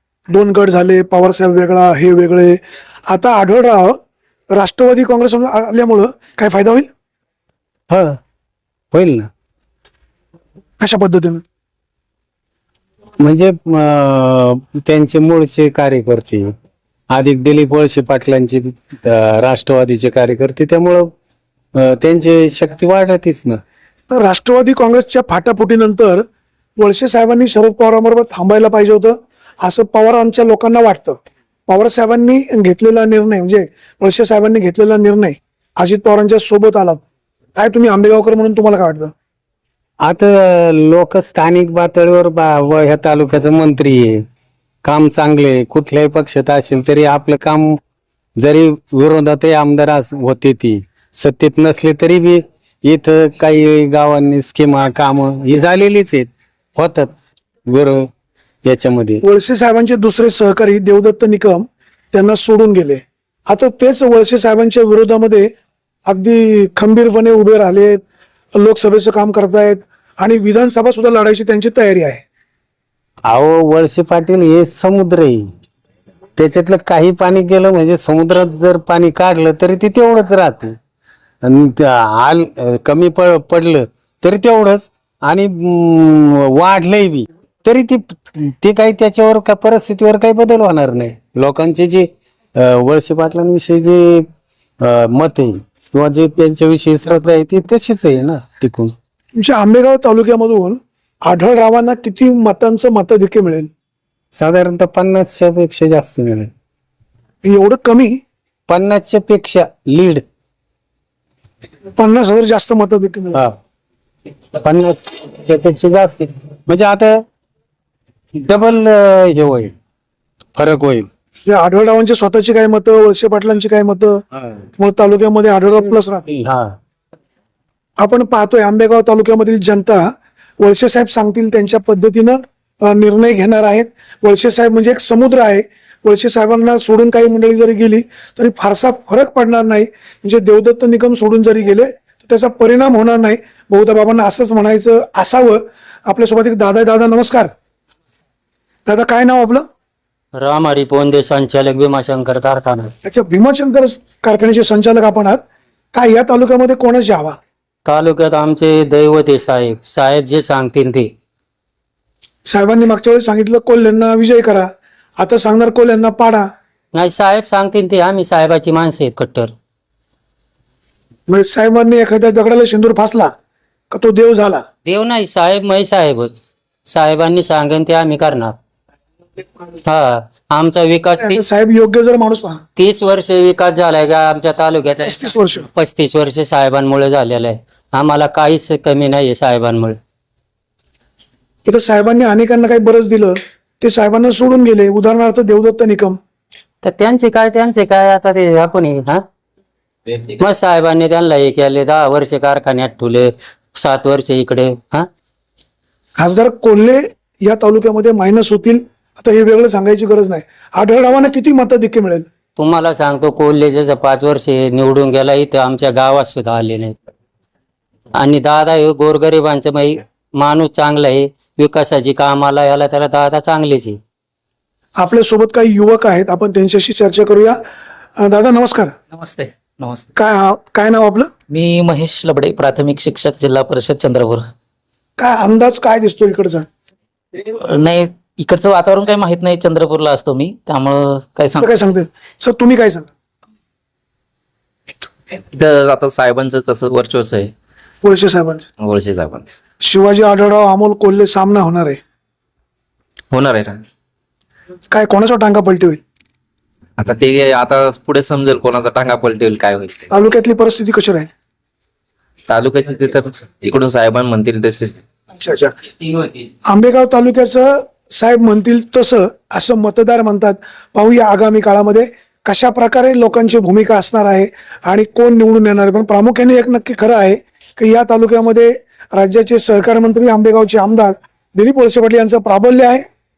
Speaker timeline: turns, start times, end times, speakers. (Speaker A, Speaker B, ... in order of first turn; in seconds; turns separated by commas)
Speaker A: 0.3-4.0, Speaker A: 4.5-6.9, Speaker B: 7.9-8.2, Speaker B: 8.9-9.3, Speaker A: 10.8-11.4, Speaker B: 13.2-16.5, Speaker B: 17.1-21.1, Speaker B: 21.8-23.6, Speaker A: 24.1-26.2, Speaker A: 26.8-37.0, Speaker A: 37.6-39.1, Speaker B: 40.0-44.2, Speaker B: 44.8-47.8, Speaker B: 48.4-57.1, Speaker B: 57.7-58.1, Speaker B: 58.6-59.2, Speaker A: 59.2-65.5, Speaker A: 66.1-68.0, Speaker A: 68.5-72.2, Speaker B: 73.3-75.5, Speaker B: 76.4-80.8, Speaker B: 81.4-94.3, Speaker B: 94.8-98.9, Speaker A: 99.3-103.7, Speaker B: 104.3-106.5, Speaker A: 107.4-108.2, Speaker B: 108.7-110.2, Speaker A: 112.0-113.4, Speaker B: 114.6-117.2, Speaker B: 118.4-119.7, Speaker B: 120.5-121.1, Speaker A: 121.5-124.2, Speaker A: 124.8-126.3, Speaker B: 126.3-126.8, Speaker A: 128.0-147.5, Speaker A: 148.9-149.6, Speaker C: 150.4-152.9, Speaker A: 153.0-155.4, Speaker A: 155.9-157.4, Speaker C: 157.9-161.1, Speaker A: 162.5-166.5, Speaker C: 166.9-169.5, Speaker A: 171.3-173.3, Speaker A: 173.9-174.6, Speaker C: 174.8-178.6, Speaker C: 179.8-181.4, Speaker A: 181.2-182.6, Speaker C: 182.8-190.0, Speaker A: 185.1-185.7, Speaker A: 191.7-196.2, Speaker C: 196.8-199.2, Speaker C: 200.3-205.1, Speaker A: 206.2-212.3, Speaker C: 212.6-216.9, Speaker C: 218.2-224.0, Speaker A: 225.0-227.6, Speaker A: 228.2-228.9, Speaker D: 229.1-230.1, Speaker A: 230.2-231.3, Speaker D: 231.5-234.5, Speaker A: 235.2-236.7, Speaker D: 237.4-241.8, Speaker A: 241.6-243.1, Speaker E: 245.5-247.5, Speaker A: 248.0-248.7, Speaker E: 248.8-249.5, Speaker A: 249.8-252.0, Speaker E: 253.3-253.8, Speaker A: 254.9-256.0, Speaker E: 257.0-260.1, Speaker A: 260.1-261.3, Speaker E: 262.5-265.0, Speaker A: 265.4-265.8, Speaker A: 266.7-283.1